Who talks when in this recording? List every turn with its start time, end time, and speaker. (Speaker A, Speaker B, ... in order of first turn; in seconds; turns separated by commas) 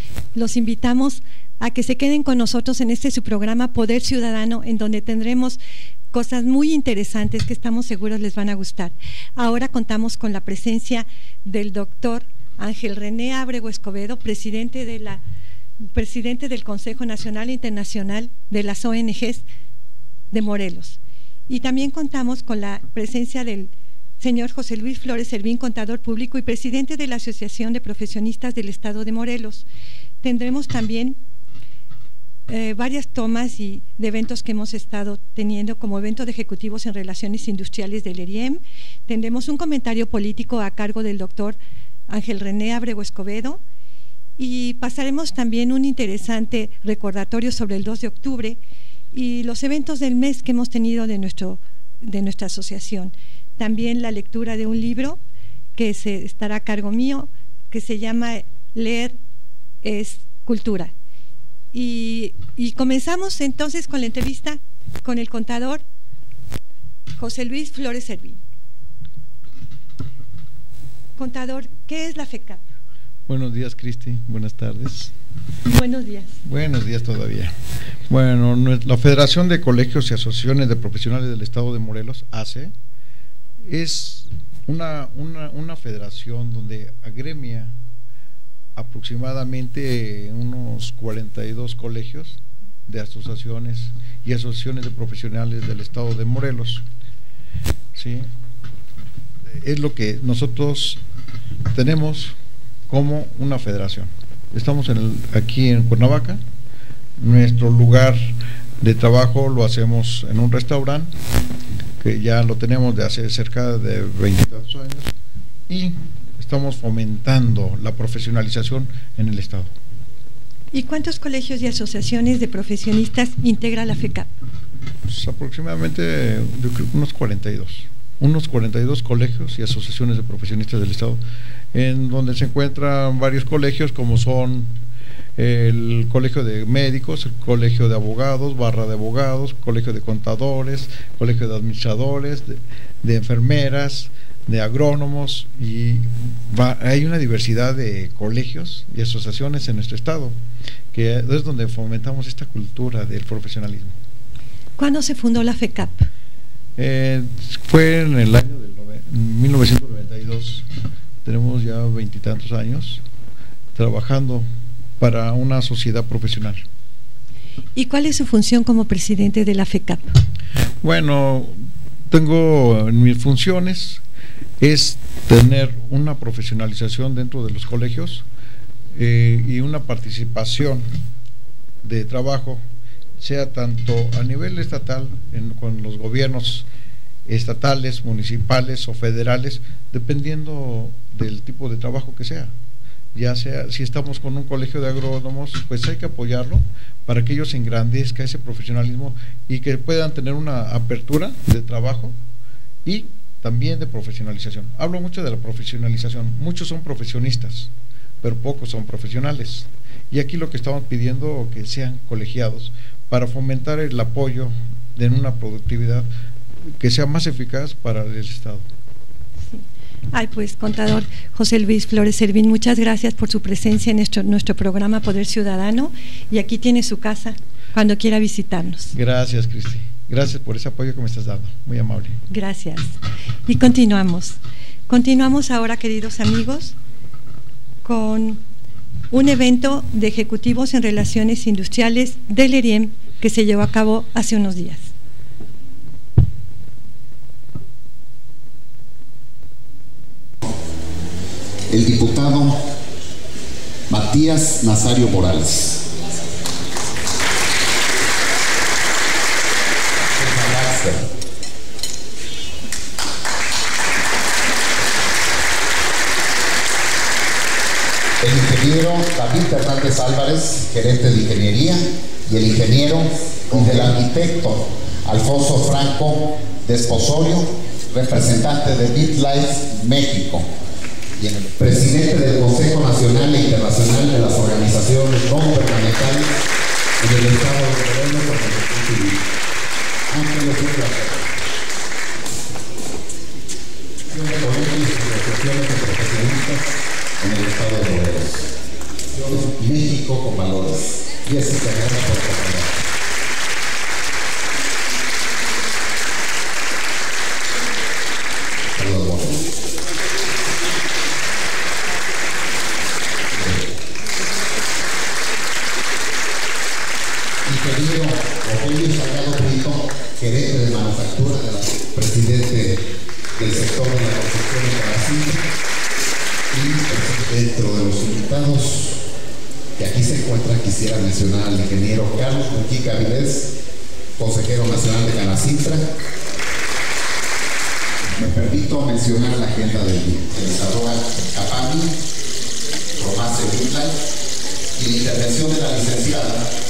Speaker A: 0.3-5.6, Speaker A: 6.1-15.2, Speaker A: 15.9-19.4, Speaker A: 20.3-29.6, Speaker A: 30.2-31.2, Speaker A: 32.5-41.6, Speaker A: 42.1-43.6, Speaker A: 44.4-48.6, Speaker A: 49.1-55.2, Speaker A: 55.7-59.2, Speaker A: 59.8-60.9, Speaker A: 61.7-65.8, Speaker A: 67.2-68.4, Speaker A: 71.2-72.6, Speaker B: 73.3-75.1, Speaker A: 75.6-76.4, Speaker B: 76.4-77.5, Speaker B: 78.1-82.7, Speaker B: 83.6-87.7, Speaker B: 88.8-96.8, Speaker B: 97.9-98.3, Speaker B: 99.6-101.0, Speaker B: 101.7-102.4, Speaker B: 102.9-106.4, Speaker B: 107.2-111.1, Speaker B: 112.0-115.1, Speaker B: 115.7-119.7, Speaker A: 120.7-124.3, Speaker B: 125.1-131.2, Speaker B: 131.7-134.7, Speaker B: 135.4-150.4, Speaker B: 150.9-153.9, Speaker A: 154.8-156.1, Speaker B: 156.8-160.7, Speaker B: 161.2-163.0, Speaker B: 163.7-164.5, Speaker B: 165.0-166.6, Speaker A: 167.8-170.1, Speaker B: 170.8-171.6, Speaker B: 172.1-174.0, Speaker B: 174.6-178.2, Speaker B: 178.9-180.8, Speaker B: 181.8-182.6, Speaker B: 183.2-186.7, Speaker B: 187.2-192.5, Speaker B: 193.1-202.2, Speaker B: 202.8-216.1, Speaker B: 216.8-218.7, Speaker A: 219.5-228.9, Speaker B: 228.9-232.2, Speaker A: 232.3-232.9, Speaker A: 233.4-234.4, Speaker A: 234.9-236.8, Speaker A: 237.8-238.4, Speaker A: 239.1-244.9, Speaker C: 251.7-252.6, Speaker C: 253.9-255.8, Speaker C: 260.1-261.1, Speaker C: 268.2-280.5, Speaker C: 281.2-286.3, Speaker C: 287.0-289.2, Speaker C: 290.1-291.2, Speaker C: 294.1-298.5, Speaker C: 299.1-302.8, Speaker C: 308.7-309.4, Speaker C: 313.3-313.7, Speaker C: 317.4-322.8, Speaker C: 323.4-325.4, Speaker C: 326.5-329.0, Speaker C: 329.8-333.5, Speaker C: 334.2-335.9, Speaker C: 338.1-341.9, Speaker C: 343.0-344.0, Speaker C: 344.7-346.5